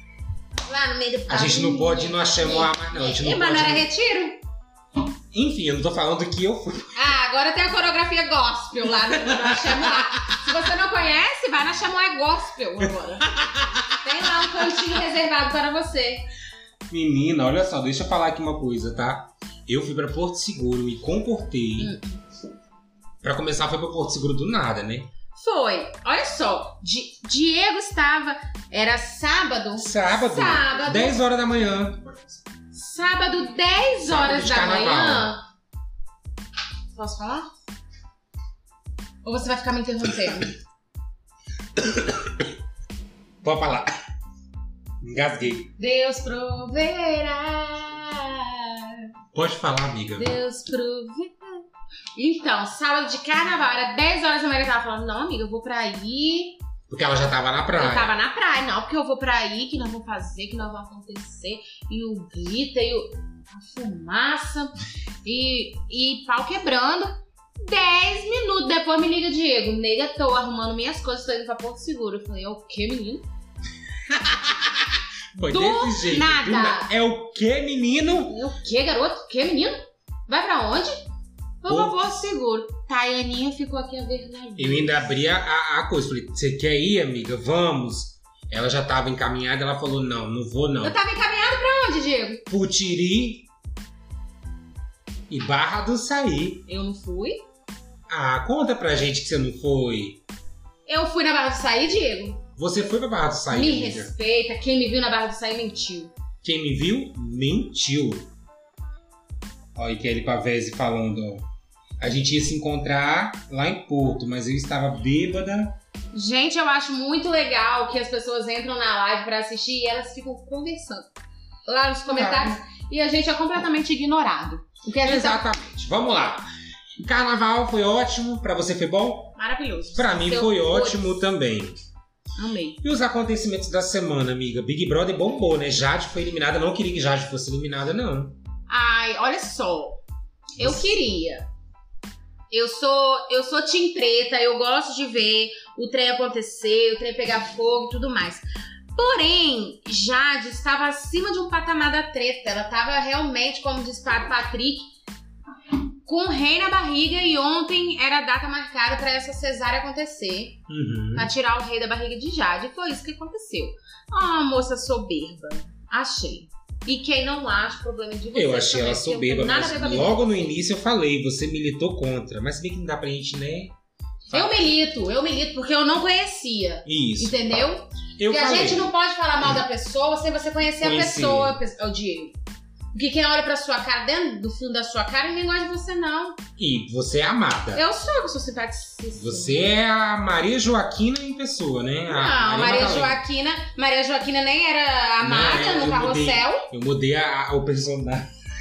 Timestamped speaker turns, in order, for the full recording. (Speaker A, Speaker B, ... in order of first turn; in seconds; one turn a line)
Speaker A: 0.6-4.4
Speaker B: 1.3-3.8
Speaker B: 5.3-7.0
Speaker A: 6.9-13.3
Speaker B: 9.2-10.1
Speaker B: 13.2-13.9
Speaker A: 14.0-16.2
Speaker B: 16.9-21.9
Speaker A: 21.8-22.2
Speaker B: 23.2-25.1
Speaker A: 25.3-31.2
Speaker B: 29.8-32.1
Speaker A: 32.7-35.4
Speaker B: 34.0-35.3
Speaker A: 36.9-37.5
Speaker A: 39.2-40.5
Speaker B: 41.8-42.4
Speaker B: 43.4-43.9
Speaker B: 45.0-45.7
Speaker A: 45.8-49.0
Speaker B: 49.3-50.3
Speaker A: 50.1-51.6
Speaker A: 52.1-56.6
Speaker B: 56.9-58.1
Speaker A: 57.7-73.2
Speaker B: 75.3-78.3
Speaker A: 75.4-76.9
Speaker A: 78.3-81.0
Speaker A: 81.6-85.1
Speaker B: 81.7-82.2
Speaker B: 84.6-91.0
Speaker A: 90.8-92.4
Speaker B: 92.5-93.5
Speaker B: 95.3-96.6
Speaker A: 96.7-97.4
Speaker B: 98.1-100.2
Speaker A: 100.9-102.4
Speaker B: 102.6-104.1
Speaker A: 103.5-106.1
Speaker B: 106.4-108.3
Speaker B: 109.7-111.5
Speaker B: 112.0-115.8
Speaker A: 116.1-121.1
Speaker A: 121.7-125.4
Speaker B: 122.1-122.6
Speaker B: 125.0-126.5
Speaker B: 127.0-129.4
Speaker A: 129.3-131.2
Speaker B: 129.9-131.8
Speaker A: 132.4-132.8
Speaker B: 132.8-138.4
Speaker A: 138.7-140.0
Speaker B: 140.6-140.9
Speaker A: 140.6-141.5
Speaker A: 142.5-154.9
Speaker A: 156.0-160.6
Speaker B: 160.7-161.3
Speaker A: 161.1-170.5
Speaker B: 168.3-173.7
Speaker B: 174.3-174.7
Speaker A: 174.3-182.3
Speaker B: 176.8-177.3
Speaker B: 178.2-178.9
Speaker B: 180.8-181.6
Speaker A: 182.9-186.4
Speaker B: 186.6-187.8
Speaker A: 187.7-189.7
Speaker B: 189.1-193.2
Speaker A: 192.1-196.7
Speaker B: 195.2-198.3